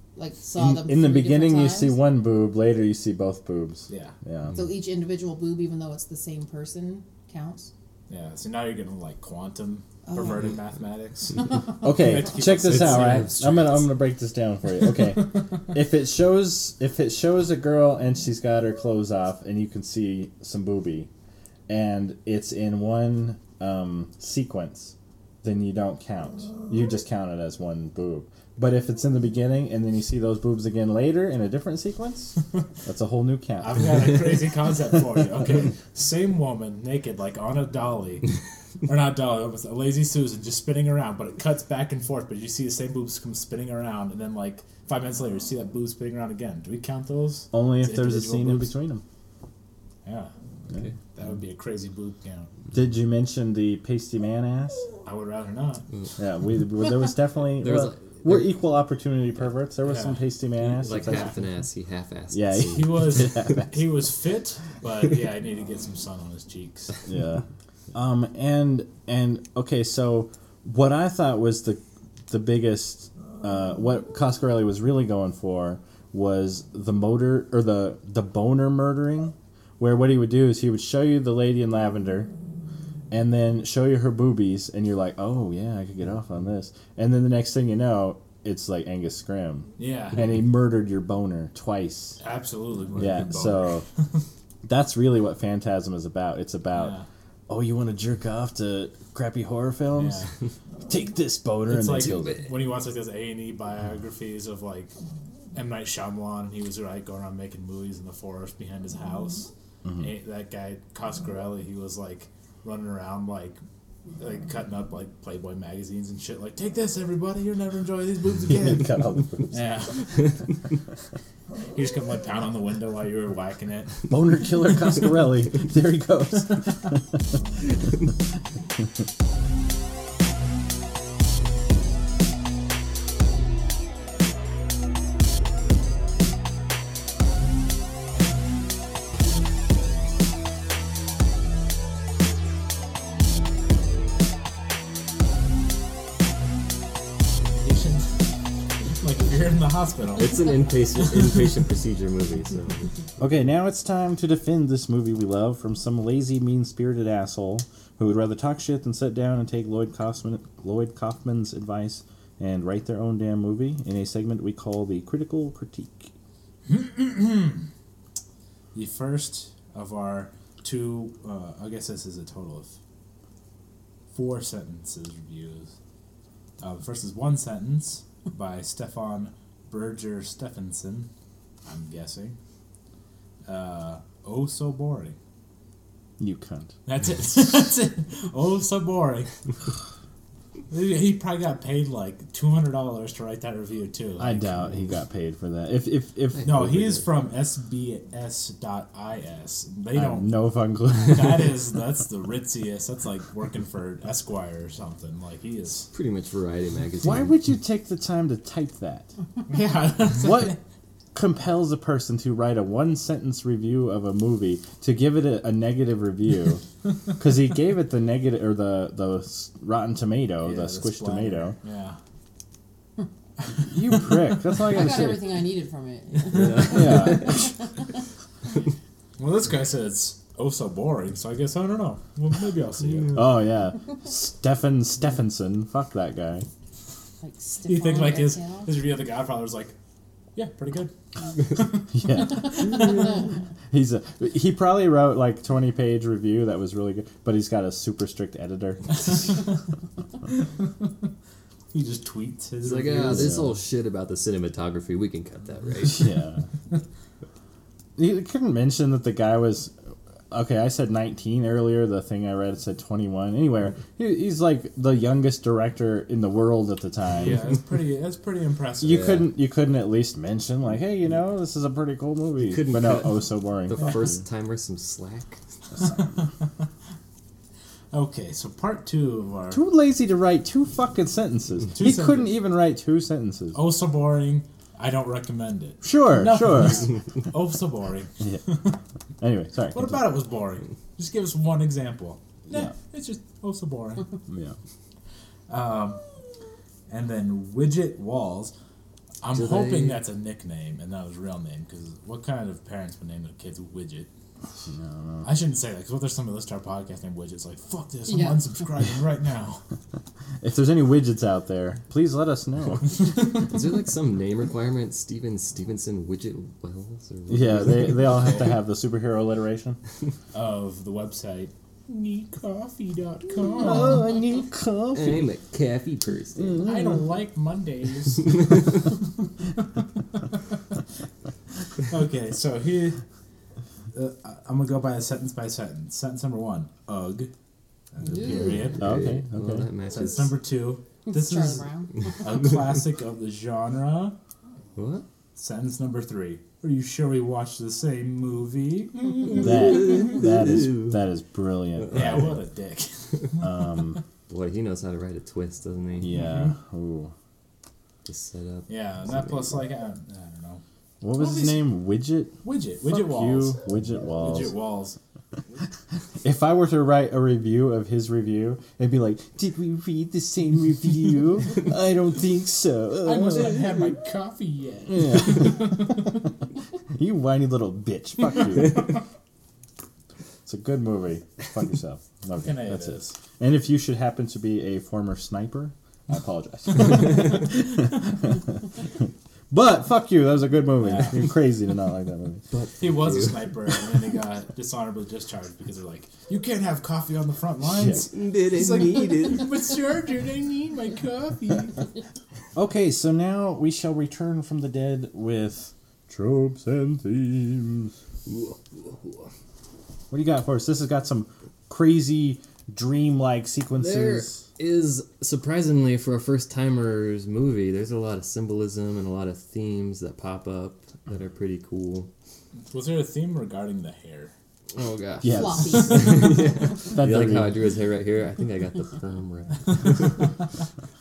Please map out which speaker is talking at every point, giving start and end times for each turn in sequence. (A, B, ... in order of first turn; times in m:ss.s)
0:00.2-0:02.0 A
0:00.6-0:04.6 B
0:03.9-0:04.1 C
0:04.5-0:07.7 A
0:08.1-0:13.3 C
0:10.1-0:10.5 A
0:11.8-0:21.1 B
0:12.5-0:13.8 D
0:21.7-0:34.2 B
0:33.6-0:38.3 C
0:38.8-0:48.7 C
0:47.5-0:49.0 B
0:50.0-0:52.5 C
0:52.7-0:54.9 B
0:55.0-0:55.9 C
0:56.2-1:01.4 B
0:57.6-0:58.5 D
0:59.8-1:00.2 C
1:00.6-1:03.2 D
1:01.0-1:01.4 C
1:02.3-1:03.9 B
1:02.6-1:07.0 C
1:07.1-1:22.3 B
1:23.1-1:32.2 B
1:29.8-1:30.4 C
1:32.2-1:33.8 C
1:33.0-1:33.8 B
1:34.6-1:37.0 B
1:36.7-1:37.1 C
1:37.5-1:40.2 B
1:40.0-1:40.3 C
1:40.9-1:42.4 B
1:41.7-1:44.9 C
1:42.0-1:42.4 D
1:45.5-1:53.6 C
1:49.8-1:50.1 B
1:54.2-2:00.2 C
1:58.4-1:59.6 B
2:01.7-2:04.1 C
2:04.1-2:07.0 B
2:27.6-2:28.2 C
2:28.9-2:30.6 C
2:30.2-2:32.9 D
2:33.2-2:46.1 B
2:46.6-2:47.7 C
2:48.7-2:52.8 C
2:54.1-2:55.7 C
2:56.6-3:01.1 C
3:01.6-3:02.4 C
3:03.5-3:05.2 C
3:06.2-3:06.8 B
3:06.9-3:09.3 C
3:10.7-3:14.7 C
3:14.2-3:17.0 B
3:16.4-3:20.3 C
3:19.9-3:21.6 B
3:21.0-3:25.9 C
3:25.9-3:27.4 D
3:27.0-3:29.1 B
3:29.5-3:30.6 C
3:30.2-3:30.6 B
3:31.1-3:36.6 B
3:37.2-3:41.6 B
3:40.4-3:42.0 C
3:43.7-3:45.2 B
3:44.6-3:47.6 A
3:46.3-3:47.4 D
3:46.6-3:47.5 B
3:49.2-3:53.2 C
3:53.1-3:56.5 B
3:57.2-3:58.7 A
3:57.6-3:59.8 C
4:00.4-4:00.9 C
4:01.4-4:03.1 C
4:01.9-4:09.2 B
4:09.1-4:09.4 C
4:10.3-4:11.1 C
4:11.7-4:13.4 C
4:12.6-4:16.1 D
4:13.1-4:13.6 B
4:15.9-4:16.5 B
4:18.0-4:19.8 B
4:20.3-4:27.4 B
4:27.1-4:29.2 C
4:28.8-4:34.2 B
4:32.4-4:35.4 D
4:35.8-4:36.5 C
4:37.9-4:39.6 C
4:39.5-4:43.6 B
4:41.8-4:42.3 C
4:43.5-4:48.8 C
4:45.8-4:46.9 B
4:49.2-4:50.0 B
4:49.7-4:54.1 C
4:54.3-4:54.5 B
4:55.5-4:56.0 C
4:56.9-4:58.5 C
4:59.2-5:04.1 C
4:59.3-5:00.0 D
5:04.7-5:05.3 B
5:05.2-5:09.6 C
5:08.1-5:08.4 A
5:10.4-5:13.0 B
5:13.3-5:18.5 D
5:17.3-5:19.8 B
5:20.3-5:24.1 C
5:23.6-5:25.3 B
5:24.9-5:26.7 D
5:26.4-5:27.0 B
5:26.6-5:28.9 C
5:31.8-5:33.0 C
5:33.9-5:37.3 C
5:38.0-5:38.9 C
5:38.1-5:40.4 D
5:38.1-5:38.7 A
5:38.8-5:39.7 B
5:39.9-5:41.7 C
5:41.0-5:42.2 A
5:42.2-5:44.2 C
5:44.8-5:45.0 D
5:45.4-5:49.5 C
5:49.3-5:52.3 B
5:49.4-5:51.0 D
5:51.9-5:52.2 D
5:51.9-5:54.0 C
5:53.4-5:54.0 B
5:54.3-5:56.1 D
5:56.0-5:57.1 B
5:56.1-5:56.5 C
5:58.0-5:59.5 D
5:58.7-6:00.6 C
6:01.0-6:04.5 B
6:01.2-6:01.6 C
6:02.4-6:03.6 C
6:04.2-6:05.0 C
6:06.2-6:13.7 B
6:13.0-6:16.1 C
6:14.9-6:16.1 B
6:16.9-6:19.0 B
6:20.5-6:28.6 B
6:22.4-6:23.1 C
6:29.5-6:32.4 B
6:30.8-6:31.1 C
6:32.5-6:33.8 D
6:32.8-6:41.8 C
6:37.8-6:39.6 D
6:42.5-6:47.9 B
6:48.3-6:49.3 D
6:50.1-6:54.4 B
6:53.8-7:02.1 D
7:02.7-7:04.3 C
7:04.7-7:10.3 D
7:05.2-7:07.6 B
7:05.3-7:06.4 A